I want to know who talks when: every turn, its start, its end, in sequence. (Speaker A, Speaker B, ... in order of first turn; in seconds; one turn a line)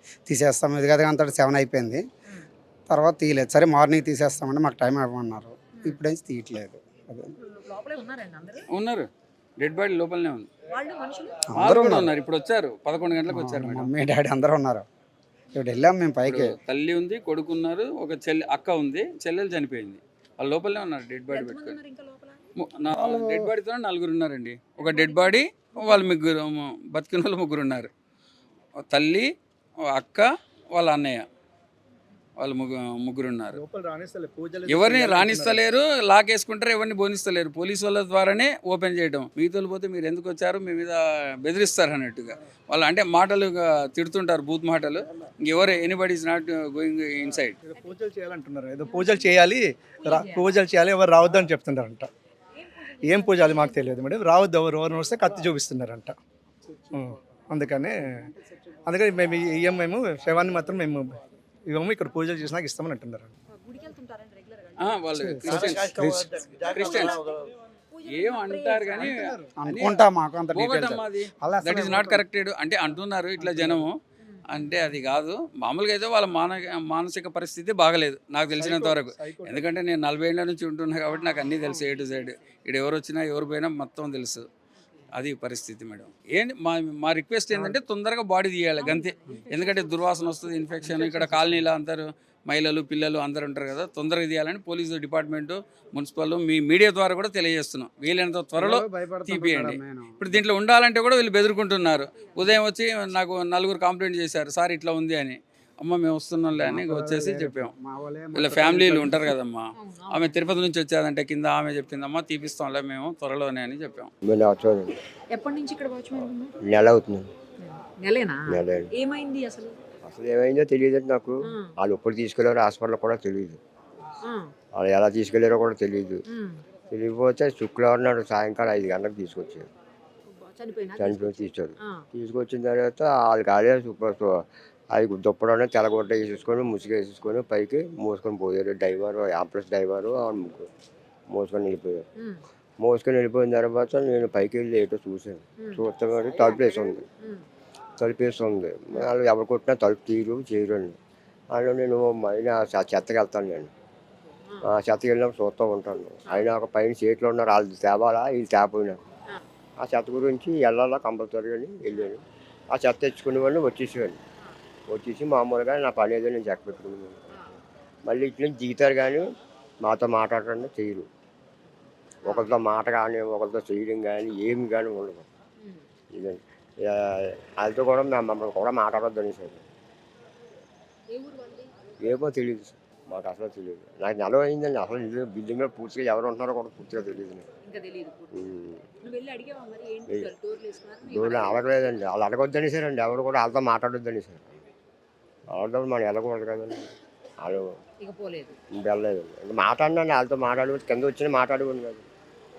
Speaker A: 0.3-2.0
Speaker A: 2.9-7.3
Speaker B: 5.7-6.0
Speaker B: 7.4-8.7
Speaker C: 8.7-9.1
Speaker C: 9.6-10.5
Speaker B: 10.7-11.4
Speaker A: 11.5-12.1
Speaker C: 11.6-13.9
Speaker A: 13.3-14.8
Speaker A: 15.5-16.6
Speaker C: 16.2-21.8
Speaker B: 21.3-22.5
Speaker C: 22.6-27.9
Speaker A: 22.9-23.5
Speaker B: 24.8-26.1
Speaker C: 28.9-29.3
Speaker C: 29.9-31.2
Speaker C: 32.4-33.6
Speaker D: 33.5-35.7
Speaker C: 34.7-47.6
Speaker D: 47.6-52.1
Speaker B: 48.9-49.4
Speaker B: 50.0-50.6
Speaker B: 52.6-53.9
Speaker D: 53.0-56.2
Speaker D: 56.9-58.3
Speaker D: 58.9-63.3
Speaker B: 63.5-65.0
Speaker C: 64.8-66.0
Speaker A: 65.1-66.3
Speaker D: 65.5-67.3
Speaker C: 66.7-67.2
Speaker B: 67.9-69.2
Speaker C: 68.1-74.0
Speaker D: 69.0-69.5
Speaker A: 69.6-72.2
Speaker D: 73.4-73.8
Speaker B: 74.2-74.8
Speaker C: 74.5-84.5
Speaker D: 78.6-79.7
Speaker C: 85.1-107.7
Speaker B: 88.8-89.9
Speaker A: 91.0-91.6
Speaker A: 98.6-100.4
Speaker B: 102.2-102.6
Speaker A: 106.5-109.3
Speaker C: 108.3-114.1
Speaker B: 109.8-110.5
Speaker E: 114.2-114.9
Speaker B: 115.3-116.5
Speaker E: 116.6-117.3
Speaker B: 117.6-119.8
Speaker E: 118.5-118.9
Speaker E: 120.0-123.6
Speaker B: 124.2-124.5
Speaker E: 124.7-126.2
Speaker B: 126.3-126.6
Speaker E: 126.9-129.7
Speaker B: 130.3-132.0
Speaker E: 131.0-140.7
Speaker E: 141.3-142.0
Speaker E: 142.8-147.1
Speaker E: 148.0-151.0
Speaker E: 151.5-153.7
Speaker B: 154.3-154.7
Speaker E: 154.6-159.0
Speaker E: 159.8-164.2
Speaker E: 164.9-167.2
Speaker B: 167.3-167.6
Speaker E: 168.1-169.3
Speaker E: 169.8-171.1
Speaker B: 172.2-172.5
Speaker E: 172.2-175.3
Speaker E: 176.1-179.6
Speaker B: 181.1-181.7
Speaker E: 182.0-187.5
Speaker B: 187.6-188.5
Speaker E: 188.4-188.8
Speaker B: 189.0-192.0
Speaker E: 191.1-194.6
Speaker E: 195.5-197.8
Speaker B: 198.0-198.6
Speaker E: 198.7-202.1